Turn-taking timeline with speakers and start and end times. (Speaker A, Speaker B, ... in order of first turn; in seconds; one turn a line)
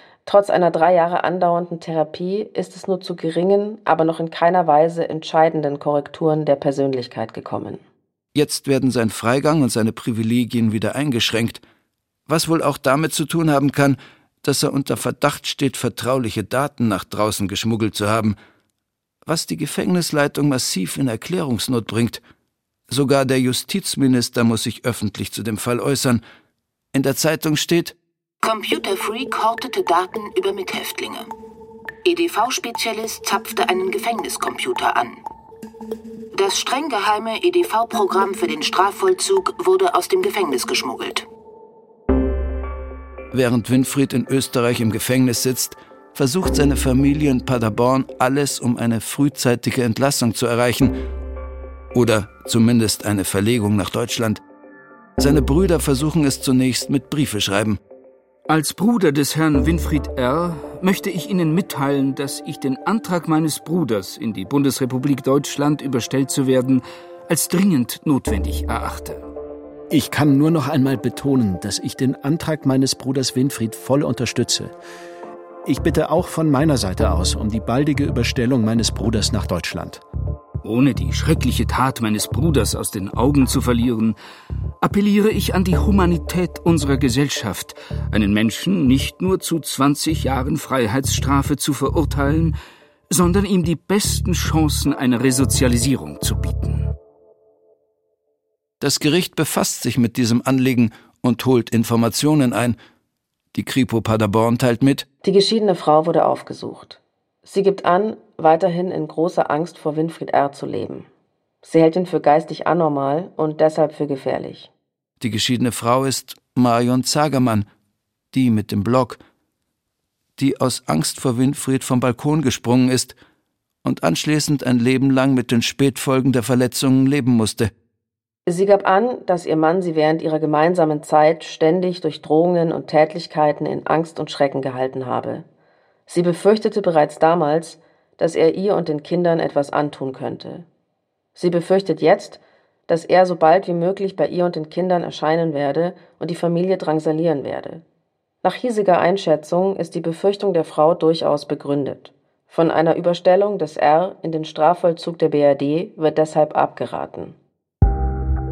Speaker A: 0.2-7.8
Speaker B: 8.3-11.6
Speaker B: 12.3-18.4
Speaker B: 19.2-22.2
Speaker B: 22.9-26.2
Speaker B: 26.9-27.9
Speaker C: 28.4-31.3
Speaker C: 32.0-35.2
Speaker C: 36.3-41.2
Speaker B: 43.3-50.9
Speaker B: 51.9-54.4
Speaker B: 55.2-57.8
Speaker D: 58.5-69.2
Speaker E: 69.9-74.7
Speaker E: 75.6-80.0
Speaker D: 80.6-84.2
Speaker D: 84.8-92.5
Speaker D: 93.1-96.9
Speaker B: 98.8-102.8
Speaker B: 103.5-105.0
Speaker A: 105.2-111.0
Speaker A: 111.6-114.7
Speaker B: 115.2-117.7
Speaker B: 118.3-119.2
Speaker B: 120.4-123.2
Speaker B: 123.8-127.7
Speaker A: 128.4-135.4
Speaker A: 136.1-140.7
Speaker A: 141.3-147.8
Speaker A: 148.4-157.3